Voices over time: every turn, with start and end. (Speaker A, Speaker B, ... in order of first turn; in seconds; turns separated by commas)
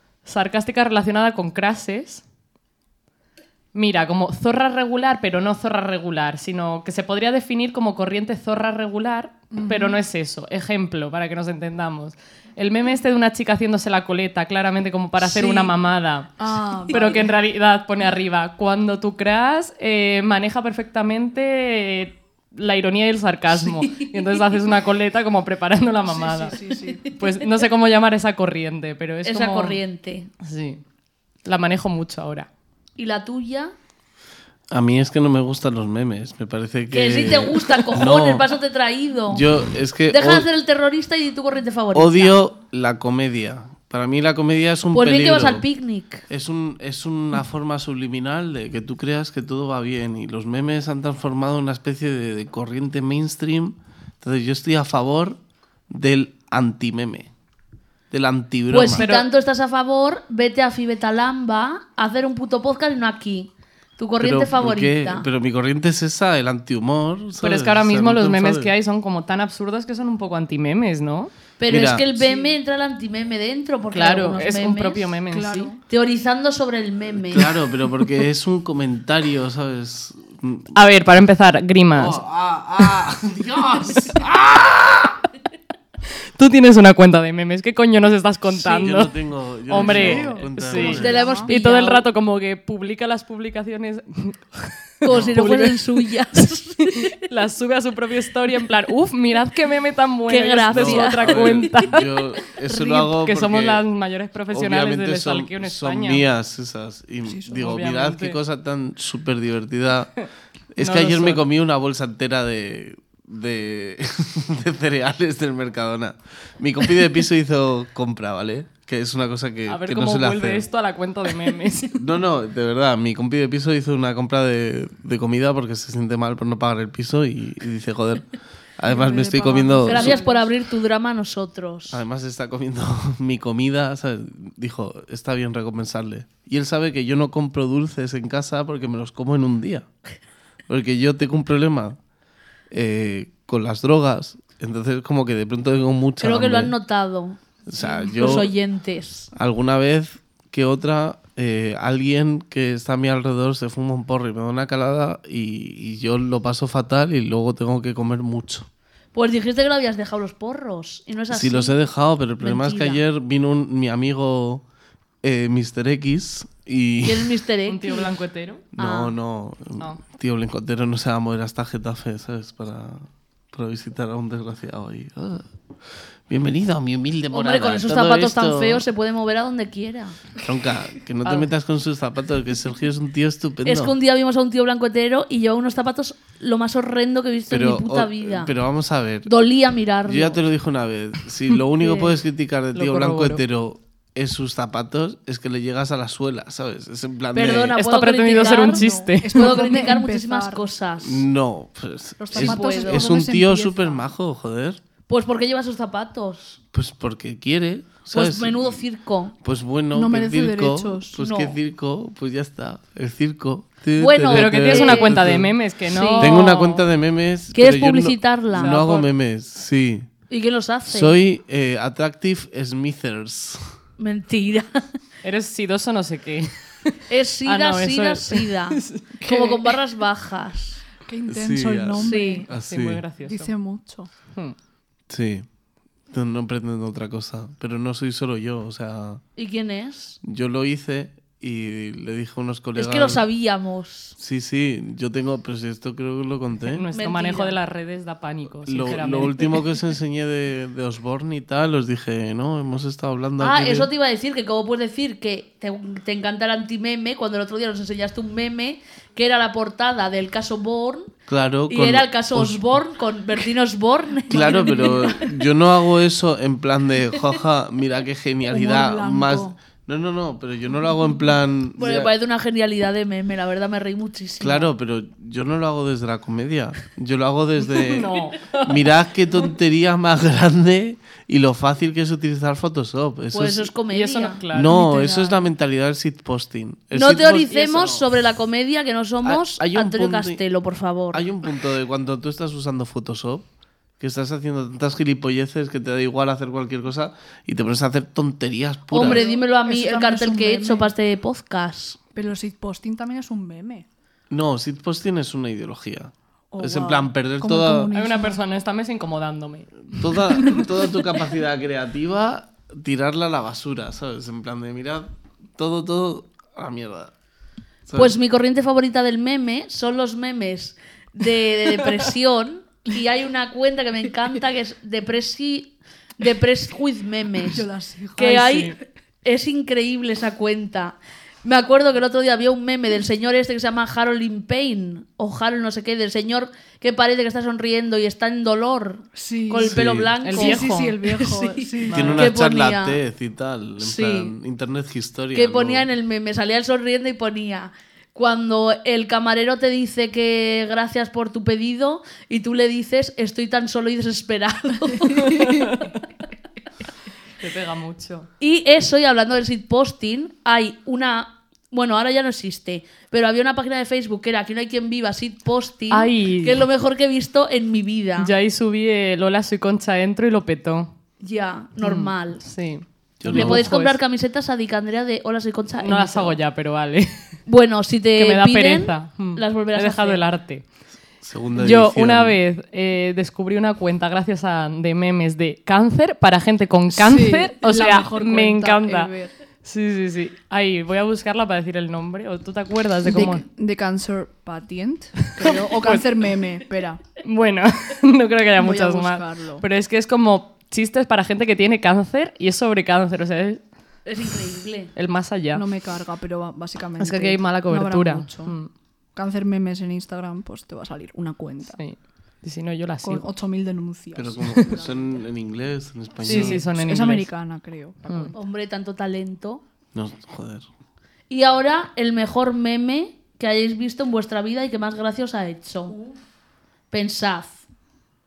Speaker A: 0.2-2.2, Speaker A: 3.7-26.6, Speaker B: 9.5-10.0, Speaker C: 15.3-15.7, Speaker B: 16.4-17.3, Speaker C: 16.9-17.2, Speaker C: 23.6-24.1, Speaker B: 26.0-27.0, Speaker A: 27.1-29.8, Speaker C: 29.2-30.3, Speaker A: 30.4-30.8, Speaker A: 31.4-32.5, Speaker C: 33.0-33.7, Speaker D: 34.7-38.5, Speaker C: 36.9-39.5, Speaker D: 39.3-40.5, Speaker C: 40.1-42.4, Speaker D: 41.9-45.6, Speaker C: 44.9-46.2, Speaker D: 46.3-57.3, Speaker D: 58.1-59.0, Speaker C: 58.7-65.2, Speaker A: 58.9-59.3, Speaker D: 64.2-68.7, Speaker A: 67.4-71.3, Speaker C: 71.6-75.1, Speaker D: 71.7-72.0, Speaker B: 72.2-72.5, Speaker A: 73.9-75.7, Speaker B: 75.3-75.8, Speaker C: 75.9-77.5, Speaker D: 77.3-80.7, Speaker A: 80.7-82.2, Speaker D: 81.9-85.2, Speaker A: 86.3-89.1, Speaker D: 88.5-91.2, Speaker A: 89.7-102.0, Speaker B: 89.7-91.5, Speaker C: 90.8-92.0, Speaker C: 95.0-97.1, Speaker D: 95.1-95.4, Speaker C: 100.3-101.9, Speaker D: 100.7-103.8, Speaker A: 102.7-106.3, Speaker D: 104.5-110.1, Speaker B: 107.2-107.7, Speaker A: 107.5-108.4, Speaker D: 110.7-120.7, Speaker A: 110.8-111.4, Speaker A: 119.7-122.0, Speaker D: 121.9-130.2, Speaker B: 128.8-130.5, Speaker C: 129.9-132.0, Speaker D: 131.9-139.9, Speaker D: 140.7-142.0, Speaker D: 142.7-146.7, Speaker C: 146.2-149.3, Speaker D: 147.7-148.5, Speaker D: 149.3-158.7, Speaker C: 159.1-161.7, Speaker D: 161.3-164.6, Speaker C: 162.4-163.0, Speaker D: 165.2-167.4, Speaker C: 167.0-168.1, Speaker A: 167.7-168.7, Speaker D: 168.7-175.5, Speaker C: 168.8-169.1, Speaker D: 176.3-178.8, Speaker C: 177.3-180.2, Speaker D: 180.4-183.9, Speaker C: 183.6-188.5, Speaker D: 187.5-189.3, Speaker C: 189.2-190.4, Speaker D: 190.0-197.8, Speaker C: 191.8-192.1, Speaker A: 192.7-193.4, Speaker C: 197.3-201.2, Speaker A: 197.7-199.7, Speaker B: 198.6-200.7, Speaker D: 201.0-204.8, Speaker B: 202.2-204.0, Speaker C: 202.3-203.1, Speaker C: 205.1-206.6, Speaker D: 206.7-208.8, Speaker C: 208.1-209.3, Speaker D: 209.4-215.6, Speaker B: 209.9-211.2, Speaker C: 211.2-211.6, Speaker C: 214.0-215.2, Speaker A: 214.3-216.8, Speaker C: 215.9-216.4, Speaker D: 216.2-220.1, Speaker C: 217.5-218.8, Speaker A: 218.5-219.1, Speaker C: 220.3-221.2, Speaker D: 220.9-223.6, Speaker C: 224.0-224.7, Speaker A: 225.2-229.2, Speaker C: 227.1-230.8, Speaker B: 229.2-229.7, Speaker B: 231.0-232.5, Speaker D: 231.3-233.0, Speaker C: 232.0-232.5, Speaker A: 232.7-233.5, Speaker B: 233.2-234.1, Speaker D: 235.1-235.4, Speaker D: 236.1-239.2, Speaker C: 239.3-240.2, Speaker D: 240.2-243.2, Speaker C: 242.8-244.1, Speaker D: 244.2-246.8, Speaker A: 246.7-249.6, Speaker C: 246.9-247.6, Speaker D: 248.6-253.9, Speaker C: 253.4-261.1, Speaker D: 261.3-262.6, Speaker C: 261.7-265.3, Speaker D: 264.3-272.1, Speaker B: 268.5-269.6, Speaker C: 271.8-274.7, Speaker D: 274.4-283.7, Speaker A: 277.7-278.9, Speaker C: 283.3-284.4, Speaker A: 283.9-284.8, Speaker D: 284.5-288.1, Speaker B: 284.6-285.5, Speaker C: 286.9-291.2, Speaker D: 289.2-290.4, Speaker D: 291.1-293.4, Speaker D: 294.0-299.3, Speaker C: 298.9-302.0, Speaker B: 299.0-300.9, Speaker B: 302.1-303.9, Speaker D: 304.3-307.9, Speaker B: 306.5-308.4, Speaker A: 307.9-309.9, Speaker D: 309.9-317.1, Speaker D: 317.9-318.2, Speaker C: 317.9-327.6, Speaker B: 327.4-328.5, Speaker C: 328.1-343.0, Speaker A: 328.2-328.8, Speaker B: 339.1-342.2, Speaker D: 339.6-340.1, Speaker A: 340.2-341.0, Speaker A: 341.9-342.3, Speaker D: 341.9-345.9, Speaker C: 343.8-344.3, Speaker C: 345.3-355.9, Speaker A: 355.4-355.8, Speaker A: 357.4-358.3, Speaker C: 358.4-368.3, Speaker A: 365.9-366.6, Speaker A: 368.2-370.9, Speaker C: 371.2-372.4, Speaker A: 371.8-374.0, Speaker D: 373.2-373.7, Speaker C: 373.2-376.4, Speaker A: 375.8-377.4, Speaker C: 377.5-380.2, Speaker A: 378.1-380.6, Speaker D: 381.2-382.4, Speaker A: 381.6-393.4, Speaker B: 386.9-389.3, Speaker B: 393.0-397.0, Speaker A: 395.3-396.3, Speaker A: 397.2-403.6, Speaker B: 398.6-399.6, Speaker C: 404.1-404.9, Speaker A: 404.9-405.6, Speaker B: 405.5-408.5, Speaker A: 407.0-408.7, Speaker B: 409.1-411.8, Speaker A: 411.7-413.3, Speaker B: 413.0-415.2, Speaker D: 414.1-416.6, Speaker A: 416.2-417.3, Speaker B: 416.2-418.3, Speaker A: 418.1-418.3, Speaker C: 418.3-419.6, Speaker D: 419.9-420.7, Speaker C: 421.3-426.0, Speaker B: 425.9-426.1, Speaker C: 426.9-427.6